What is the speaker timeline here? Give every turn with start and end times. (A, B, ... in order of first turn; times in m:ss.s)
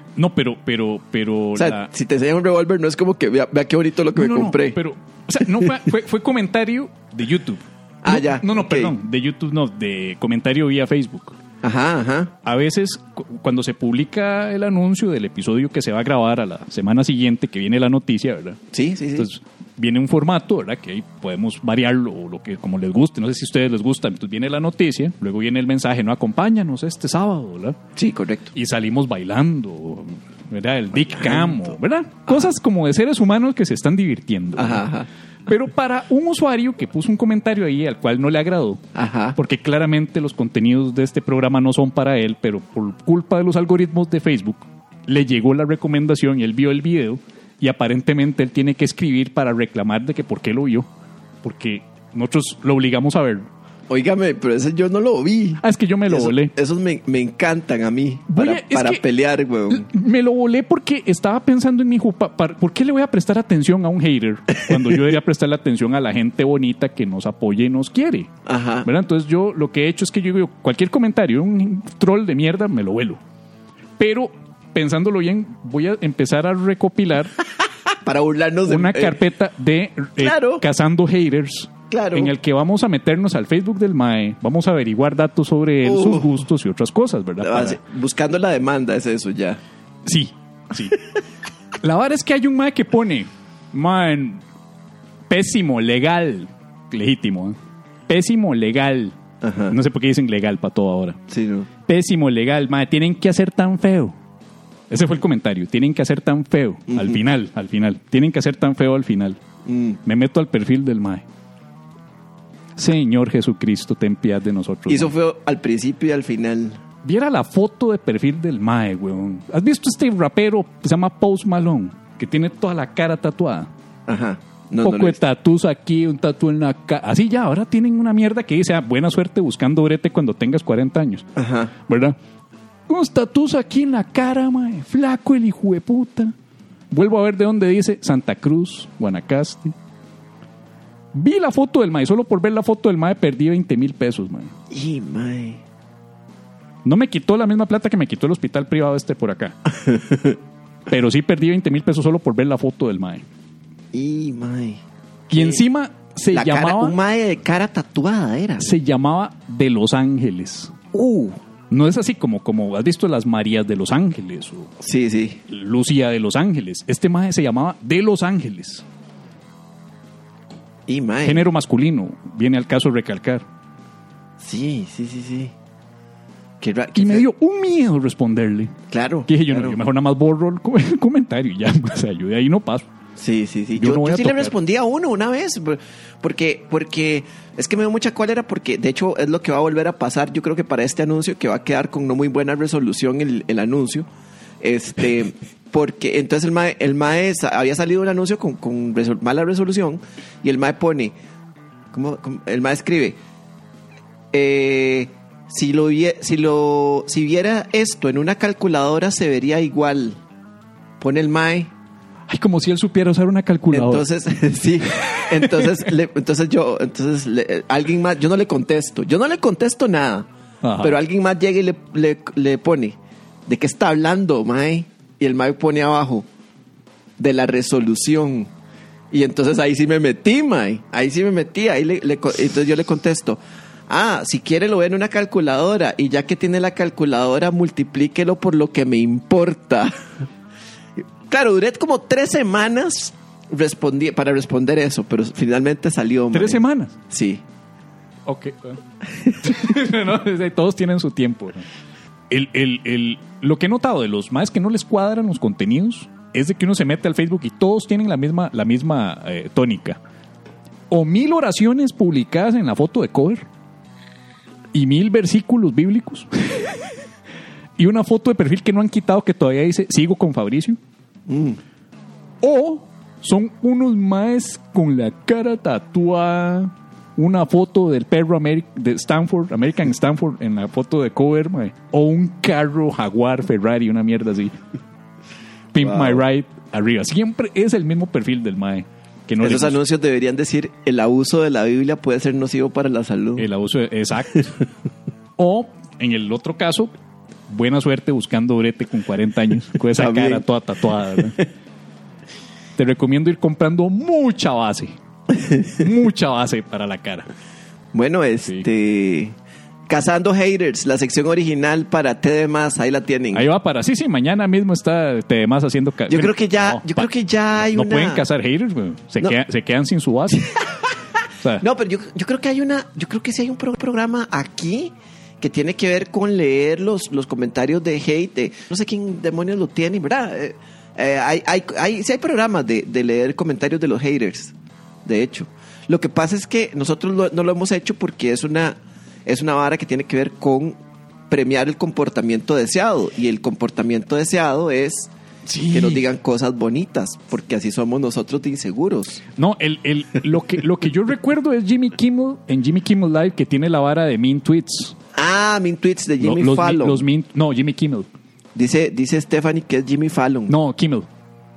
0:00.2-0:01.9 A
0:01.6-0:04.8 B
0:04.1-0:11.4 A
0:08.0-0:08.9 B
0:11.6-0:12.3 B
0:12.4-0:18.6 A
0:18.7-0:19.3 B
0:19.1-0:27.8 A
0:28.0-0:28.5 B
0:28.5-0:34.8 A
0:31.2-0:31.7 B
0:34.6-0:35.1 B
0:35.5-0:38.8 A
0:38.9-0:39.4 B
0:39.4-0:50.9 A
0:51.4-0:53.5 A
0:53.9-0:59.9 B
0:55.6-0:56.5 A
0:58.3-0:59.0 A
0:59.7-1:08.3 A
1:08.4-1:08.9 B
1:08.8-1:13.2 A
1:14.0-1:17.3 A
1:18.0-1:19.2 B
1:18.7-1:27.8 A
1:20.2-1:20.6 B
1:21.9-1:22.3 B
1:25.8-1:26.4 B
1:27.4-1:29.6 B
1:30.0-1:31.0 A
1:31.8-1:34.4 A
1:35.3-1:39.2 A
1:39.4-1:39.8 B
1:39.7-1:41.2 A
1:41.3-1:41.7 B
1:41.8-1:44.2 A
1:44.9-1:49.4 A
1:46.9-1:47.2 B
1:49.6-1:50.0 B
1:50.0-1:51.2 A
1:52.8-1:55.1 A
1:54.9-1:56.8 B
1:57.0-2:03.7 A
2:04.1-2:05.2 B
2:04.8-2:11.3 A
2:11.4-2:11.7 B
2:11.8-2:12.2 A
2:12.9-2:16.3 A
2:16.9-2:19.7 A
2:21.1-2:24.5 A
2:24.7-2:25.6 B
2:26.8-2:29.5 A
2:29.8-2:30.4 B
2:30.9-2:33.2 A
2:33.9-2:34.8 B
2:35.3-2:37.0 A
2:35.3-2:35.6 B
2:36.3-2:38.6 B
2:38.6-2:40.7 A
2:40.9-2:41.4 B
2:41.7-2:44.7 A
2:44.8-2:45.4 B
2:45.5-2:48.8 A
2:50.9-2:51.4 B
2:51.2-2:53.4 A
2:54.4-2:55.5 B
2:56.6-2:57.2 B
2:56.9-2:58.8 A
2:58.9-2:59.8 B
2:59.3-3:02.9 A
3:03.2-3:14.1 B
3:03.7-3:04.6 A
3:14.6-3:21.1 B
3:21.9-3:23.2 B
3:24.3-3:30.2 B
3:31.0-3:31.7 B
3:32.3-3:34.0 A
3:33.7-3:40.3 B
3:35.0-3:35.8 A
3:40.6-3:41.0 A
3:40.8-3:46.3 B
3:47.2-3:48.5 B
3:49.1-4:00.0 B
4:01.3-4:07.4 B
4:06.3-4:07.0 A
4:08.2-4:08.8 A
4:09.4-4:11.6 A
4:12.3-4:20.0 A
4:20.9-4:23.4 A
4:24.7-4:26.9 A
4:27.8-4:30.8 A
4:31.3-4:31.6 B
4:32.4-4:44.6 A
4:45.7-4:49.8 A
4:45.8-4:46.2 B
4:49.4-4:53.5 B
4:53.4-4:54.5 A
4:55.4-4:56.9 A
4:57.5-5:01.4 A
4:59.9-5:00.4 B
5:02.8-5:05.0 A
5:05.4-5:05.8 B
5:05.7-5:07.3 A
5:07.9-5:09.4 B
5:09.9-5:13.4 B
5:13.3-5:20.5 A
5:16.1-5:18.2 B
5:20.5-5:21.0 B
5:21.6-5:34.5 B
5:35.0-5:40.8 B
5:41.3-5:45.1 B
5:45.4-5:46.0 A
5:45.7-5:49.2 B
5:49.4-5:55.0 A
5:55.1-5:57.0 B
5:56.2-5:58.1 A
5:58.5-6:00.5 B
6:00.5-6:01.1 A